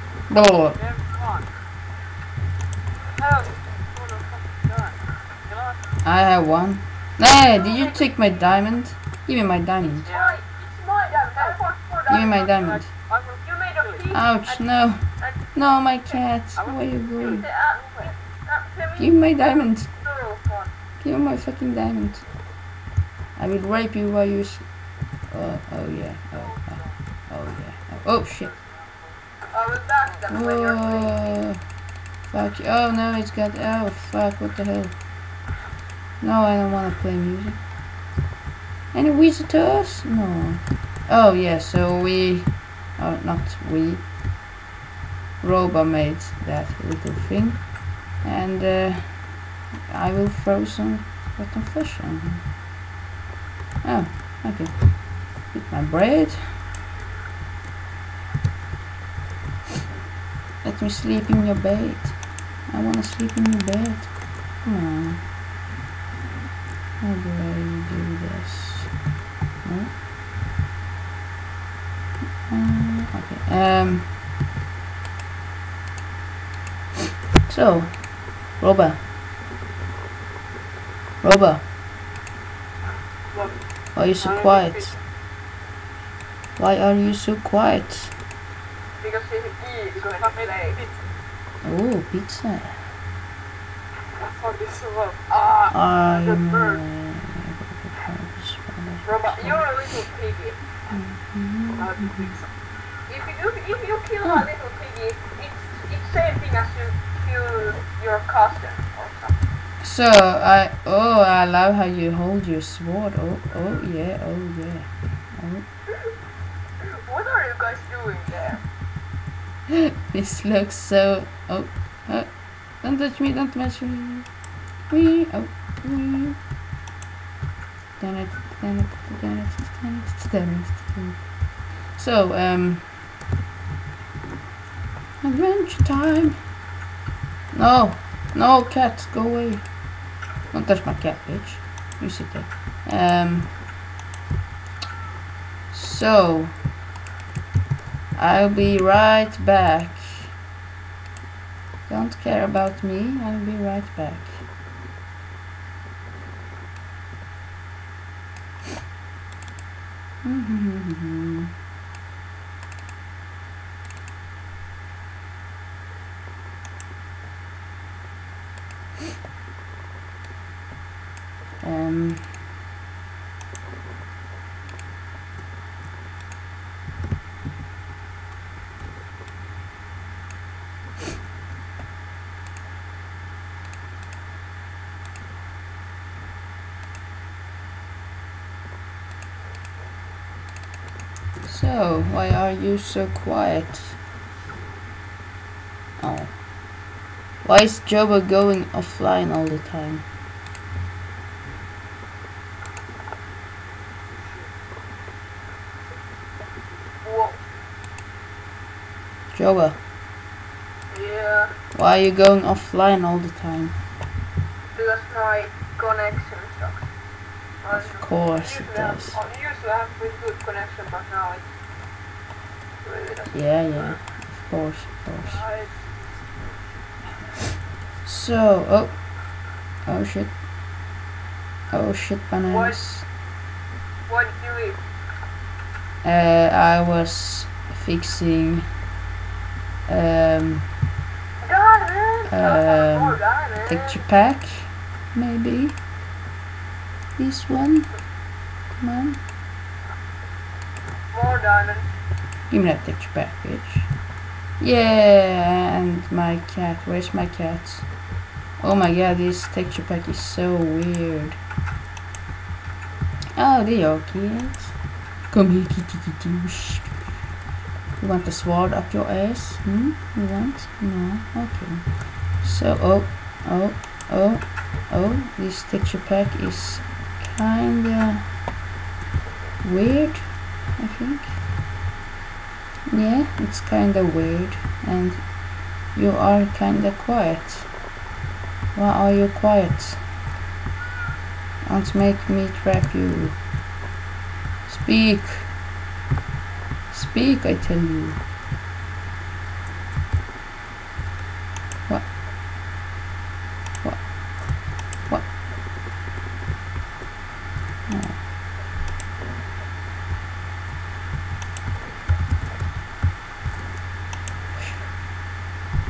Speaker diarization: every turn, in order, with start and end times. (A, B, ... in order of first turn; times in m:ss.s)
0:00.3-0:00.8 A
0:00.8-0:01.5 B
0:03.1-0:05.8 B
0:06.0-0:10.1 A
0:07.5-0:08.2 C
0:09.8-0:10.5 B
0:10.1-0:12.8 C
0:12.1-0:13.0 A
0:12.5-0:14.1 B
0:13.4-0:16.2 C
0:14.1-0:17.5 A
0:16.6-0:18.1 B
0:17.3-0:20.7 C
0:19.0-0:20.0 A
0:21.0-0:22.3 A
0:23.4-0:28.5 A
0:26.3-0:27.0 B
0:28.1-0:29.2 B
0:29.5-0:31.5 C
0:30.3-0:31.7 A
0:32.2-0:35.0 A
0:36.2-0:37.6 A
0:38.9-0:44.1 A
0:45.4-0:52.5 A
0:53.8-0:56.7 A
1:00.6-1:05.3 A
1:07.0-1:09.0 A
1:09.6-1:10.0 A
1:12.5-1:14.1 A
1:17.4-1:19.0 A
1:21.2-1:21.7 A
1:23.3-1:25.0 B
1:23.9-1:25.0 A
1:26.6-1:28.2 A
1:29.0-1:30.8 C
1:30.0-1:31.1 B
1:31.6-1:32.9 A
1:34.3-1:36.8 B
1:35.7-1:39.9 A
1:39.0-1:40.6 C
1:40.9-1:42.4 A
1:41.8-1:42.5 B
1:43.1-1:49.4 C
1:49.8-1:55.7 A
1:56.8-1:58.7 C
2:00.1-2:06.4 A
2:08.0-2:13.1 A
2:15.2-2:16.6 A
2:17.5-2:19.9 A
2:20.5-2:23.6 A
2:25.7-2:26.6 A
2:28.1-2:30.4 A
2:31.9-2:34.5 A
2:40.2-2:41.5 A
2:51.6-2:52.5 A
3:11.4-3:14.0 A
3:16.0-3:16.8 A
3:17.4-3:20.1 A
3:27.0-3:27.4 C
3:29.3-3:29.8 A
3:30.9-3:31.6 C
3:31.7-3:33.8 A
3:34.7-3:36.9 C
3:37.6-3:41.5 C
3:37.7-3:39.2 A
3:42.8-3:44.0 C
3:43.3-3:45.4 A
3:45.2-3:45.7 C
3:48.0-3:50.4 A
3:51.7-3:53.1 A
3:52.4-3:52.9 C
3:54.1-3:54.8 C
3:56.0-3:58.8 A
3:59.9-4:00.7 A
4:01.4-4:04.0 C
4:02.3-4:05.8 A
4:07.2-4:08.0 A
4:08.7-4:09.2 A
4:11.1-4:11.9 C
4:12.5-4:13.9 A
4:14.6-4:18.0 A
4:18.6-4:21.4 A
4:23.4-4:27.2 A
4:28.0-4:38.4 A
4:39.6-4:41.4 A
4:42.9-4:47.8 A
4:48.7-4:50.1 A
4:51.6-4:53.4 A
4:54.7-4:55.6 A
4:56.9-4:58.2 A
5:03.8-5:05.3 A
5:07.9-5:08.2 A
5:14.6-5:14.8 A